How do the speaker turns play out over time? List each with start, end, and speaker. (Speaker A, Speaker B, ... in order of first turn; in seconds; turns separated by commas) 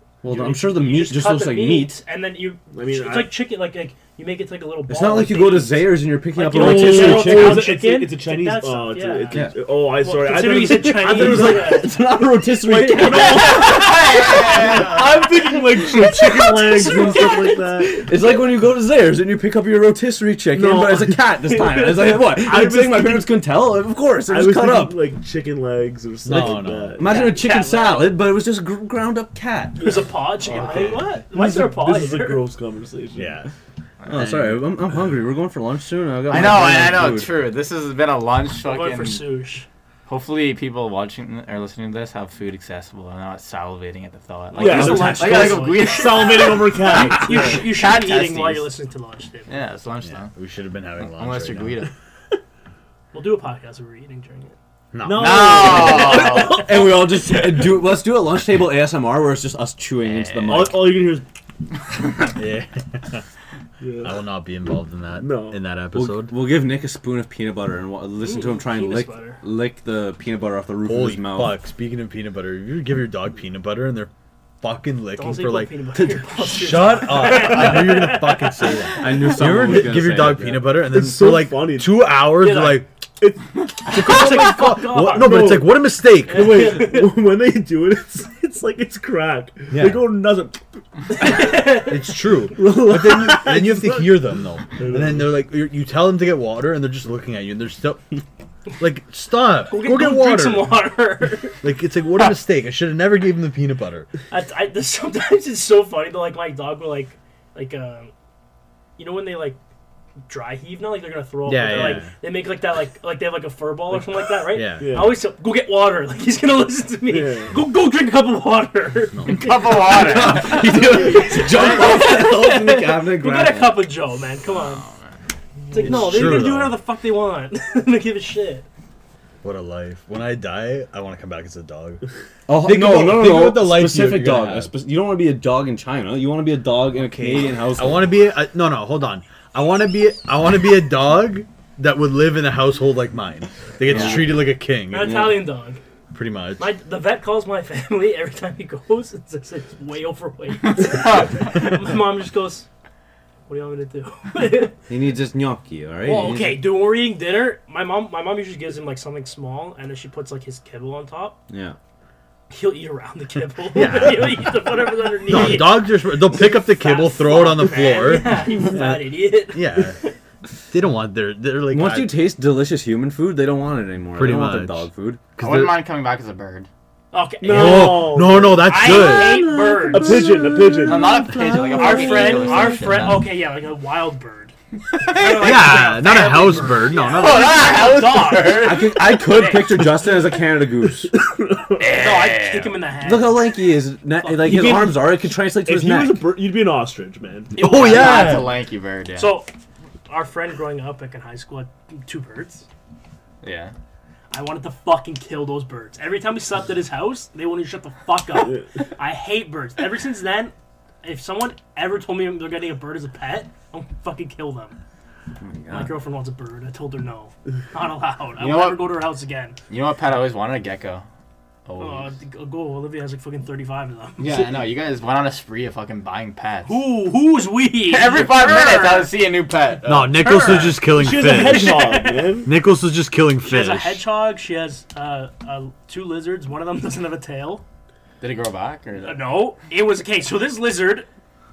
Speaker A: 0.2-2.0, Speaker B: 0.3-12.0, Speaker C: 2.7-3.4, Speaker A: 4.9-7.8, Speaker C: 6.5-18.1, Speaker A: 9.3-9.7, Speaker A: 10.6-13.7, Speaker B: 12.9-14.3, Speaker D: 13.1-15.3, Speaker D: 16.2-17.5, Speaker B: 16.6-17.3, Speaker A: 16.9-25.1, Speaker C: 20.5-23.4, Speaker C: 24.3-27.3, Speaker E: 26.2-27.0, Speaker A: 26.3-30.1, Speaker D: 27.0-28.0, Speaker B: 27.5-28.0, Speaker B: 29.8-32.5, Speaker E: 30.4-31.1, Speaker C: 30.6-33.5, Speaker E: 33.2-33.5, Speaker A: 34.1-37.4, Speaker E: 34.1-35.0, Speaker D: 36.3-39.3, Speaker B: 38.6-39.7, Speaker D: 40.1-48.7, Speaker B: 44.5-49.6, Speaker C: 44.5-47.7, Speaker A: 44.8-45.7, Speaker D: 49.5-50.3, Speaker E: 50.2-51.8, Speaker D: 51.0-51.9, Speaker B: 53.1-54.6, Speaker E: 54.9-55.9, Speaker C: 55.0-56.8, Speaker D: 55.1-56.8, Speaker A: 56.1-61.1, Speaker D: 60.0-60.9, Speaker C: 60.5-61.2, Speaker E: 62.4-63.2, Speaker C: 63.8-64.2, Speaker E: 64.0-66.3, Speaker C: 65.2-65.6, Speaker A: 65.9-71.5, Speaker B: 68.2-69.4, Speaker E: 70.8-74.1, Speaker E: 74.6-82.9, Speaker B: 75.2-79.2, Speaker A: 79.0-80.7, Speaker C: 79.7-80.0, Speaker C: 80.7-82.1, Speaker B: 82.3-82.9, Speaker C: 83.2-91.6, Speaker E: 83.9-86.8, Speaker B: 83.9-85.7, Speaker B: 86.3-87.2, Speaker E: 89.7-90.1, Speaker B: 91.1-92.1, Speaker E: 91.9-98.0, Speaker C: 92.5-95.3, Speaker E: 98.8-100.8, Speaker B: 99.7-101.6, Speaker E: 101.6-104.1, Speaker B: 104.3-108.1, Speaker B: 109.0-109.6, Speaker B: 110.3-124.9, Speaker E: 111.5-112.1, Speaker E: 114.5-115.0, Speaker C: 114.8-115.2, Speaker C: 117.1-117.6, Speaker E: 119.1-119.7, Speaker D: 119.3-120.9, Speaker A: 119.8-123.9, Speaker D: 121.4-122.0, Speaker D: 124.5-125.2, Speaker C: 125.7-126.4, Speaker B: 125.7-128.7, Speaker E: 125.8-126.8, Speaker E: 129.4-132.0, Speaker A: 132.5-138.2, Speaker E: 132.6-134.7, Speaker E: 137.0-145.4, Speaker A: 143.9-144.5, Speaker D: 143.9-144.2, Speaker B: 144.9-145.8, Speaker A: 145.1-145.3, Speaker E: 146.1-146.7, Speaker B: 146.6-152.7, Speaker D: 150.7-151.6, Speaker B: 153.5-154.9, Speaker A: 154.9-156.6, Speaker B: 156.1-161.4, Speaker A: 161.5-161.8, Speaker B: 162.5-170.1, Speaker E: 163.7-169.0, Speaker C: 168.5-169.1, Speaker E: 169.5-170.0, Speaker E: 170.7-172.2, Speaker A: 171.7-175.2, Speaker E: 174.1-175.8, Speaker D: 175.4-176.7, Speaker B: 177.1-189.9, Speaker C: 177.4-182.8, Speaker E: 177.4-179.4, Speaker D: 180.8-183.3, Speaker D: 184.9-185.8, Speaker E: 185.3-187.7, Speaker D: 187.1-188.9, Speaker A: 188.5-191.1, Speaker C: 191.0-192.1, Speaker D: 191.8-192.8, Speaker B: 191.8-193.7, Speaker A: 193.0-196.4, Speaker B: 194.2-194.9, Speaker C: 194.4-197.6, Speaker E: 197.6-198.5, Speaker D: 197.6-199.4, Speaker B: 197.7-198.3, Speaker B: 199.2-199.5, Speaker B: 200.1-202.7, Speaker D: 203.4-203.7, Speaker B: 204.3-214.8, Speaker A: 215.4-215.9, Speaker B: 215.7-219.6, Speaker D: 218.4-218.9, Speaker D: 219.7-221.1, Speaker D: 221.7-222.2, Speaker B: 221.8-224.4, Speaker D: 224.2-226.9, Speaker B: 226.7-229.1, Speaker D: 227.9-230.3, Speaker E: 229.8-231.8, Speaker B: 230.1-232.4, Speaker C: 230.9-232.5, Speaker E: 232.4-234.1, Speaker B: 233.4-237.6, Speaker D: 238.2-239.4, Speaker B: 239.0-241.1